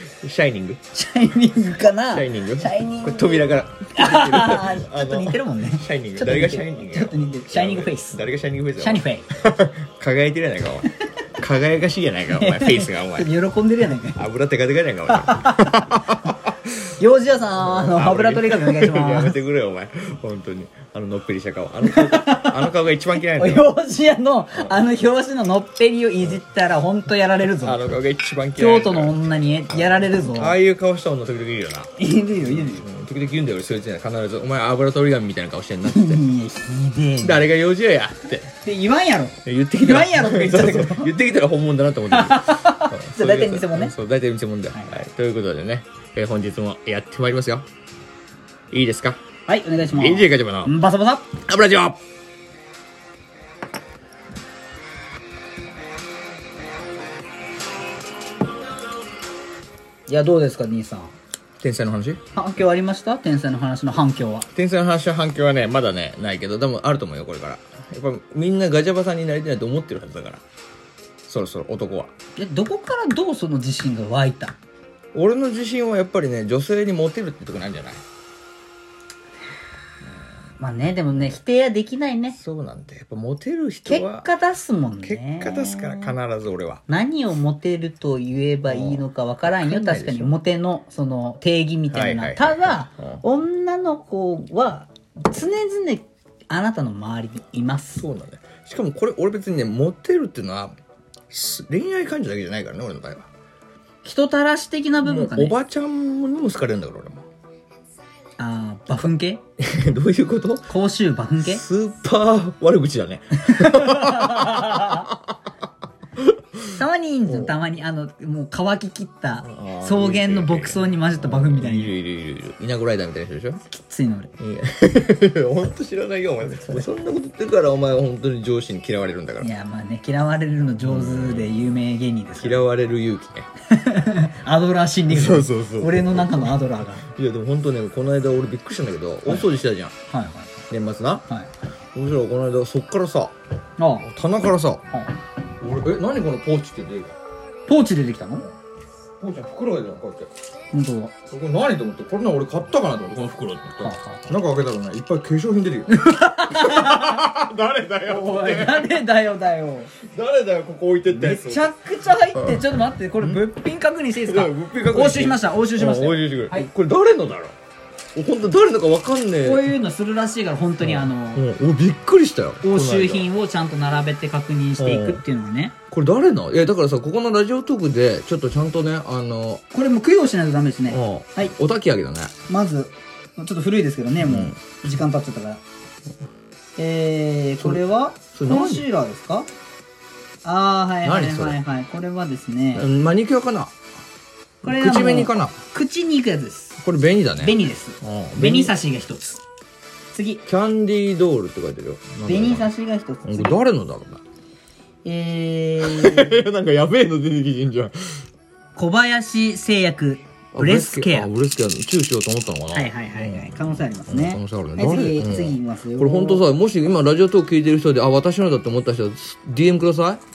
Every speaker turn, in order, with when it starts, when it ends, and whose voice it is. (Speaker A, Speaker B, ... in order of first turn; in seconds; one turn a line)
Speaker A: 0.2-0.8
Speaker B: 0.9-8.2
Speaker A: 2.1-13.3
Speaker B: 8.8-9.2
Speaker B: 12.3-14.2
Speaker A: 14.1-16.7
Speaker B: 15.1-15.8
Speaker B: 17.0-19.3
Speaker A: 17.6-23.7
Speaker B: 21.8-22.7
Speaker B: 23.3-27.8
Speaker A: 27.6-29.1
Speaker B: 28.6-30.6
Speaker A: 29.7-31.9
Speaker B: 32.0-32.9
Speaker A: 32.4-36.2
Speaker B: 35.8-37.5
Speaker A: 37.2-38.5
Speaker B: 38.6-41.1
Speaker A: 39.4-47.6
Speaker B: 42.1-43.9
Speaker A: 48.7-49.2
Speaker B: 49.5-51.4
Speaker A: 49.8-50.7
Speaker A: 51.4-52.0
Speaker B: 60.1-61.1
Speaker A: 61.6-62.2
Speaker B: 62.3-64.5
Speaker A: 64.5-70.4
Speaker A: 71.2-72.1
Speaker B: 72.4-74.5
Speaker A: 75.1-78.0
Speaker B: 80.6-82.4
Speaker A: 82.3-84.3
Speaker B: 83.9-86.1
Speaker A: 85.0-86.8
Speaker B: 86.9-98.0
Speaker A: 88.7-90.3
Speaker A: 91.9-93.2
Speaker A: 98.0-100.7
Speaker A: 101.3-103.3
Speaker B: 104.0-105.5
Speaker A: 105.0-107.2
Speaker B: 108.4-109.4
Speaker A: 109.6-110.7
Speaker B: 110.7-111.6
Speaker A: 111.4-115.3
Speaker B: 113.4-115.0
Speaker A: 116.2-116.7
Speaker B: 116.7-121.9
Speaker A: 117.3-117.5
Speaker A: 119.4-123.6
Speaker B: 123.7-124.3
Speaker A: 124.4-129.5
Speaker B: 126.5-126.9
Speaker B: 129.4-132.7
Speaker A: 130.8-131.7
Speaker A: 132.4-133.5
Speaker B: 133.7-137.0
Speaker A: 135.1-136.6
Speaker A: 137.1-139.9
Speaker B: 140.1-140.6
Speaker A: 140.7-141.2
Speaker A: 141.9-143.3
Speaker B: 143.8-144.1
Speaker A: 144.0-144.8
Speaker A: 145.5-147.2
Speaker B: 147.7-148.5
Speaker A: 149.2-150.3
Speaker B: 150.7-151.1
Speaker A: 151.3-159.0
Speaker B: 153.8-154.2
Speaker B: 155.9-157.3
Speaker B: 158.0-159.9
Speaker A: 160.1-161.7
Speaker B: 161.1-166.7
Speaker A: 164.2-167.6
Speaker A: 168.1-169.7
Speaker B: 169.4-171.4
Speaker A: 170.8-173.3
Speaker B: 172.6-175.7
Speaker A: 174.8-175.2
Speaker A: 175.9-179.6
Speaker B: 179.7-181.5
Speaker A: 180.9-182.3
Speaker B: 182.5-185.6
Speaker A: 184.2-184.6
Speaker B: 186.8-189.5
Speaker A: 188.3-188.8
Speaker B: 190.4-192.9
Speaker A: 191.0-191.6
Speaker A: 192.7-193.7
Speaker B: 194.6-196.8
Speaker A: 194.6-195.6
Speaker A: 196.8-198.7
Speaker B: 197.4-199.4
Speaker B: 200.1-200.4
Speaker A: 200.4-202.7
Speaker B: 202.2-203.6
Speaker A: 203.2-204.2
Speaker B: 205.0-206.3
Speaker A: 205.8-208.2
Speaker B: 208.8-211.3
Speaker A: 210.5-220.2
Speaker B: 212.7-216.4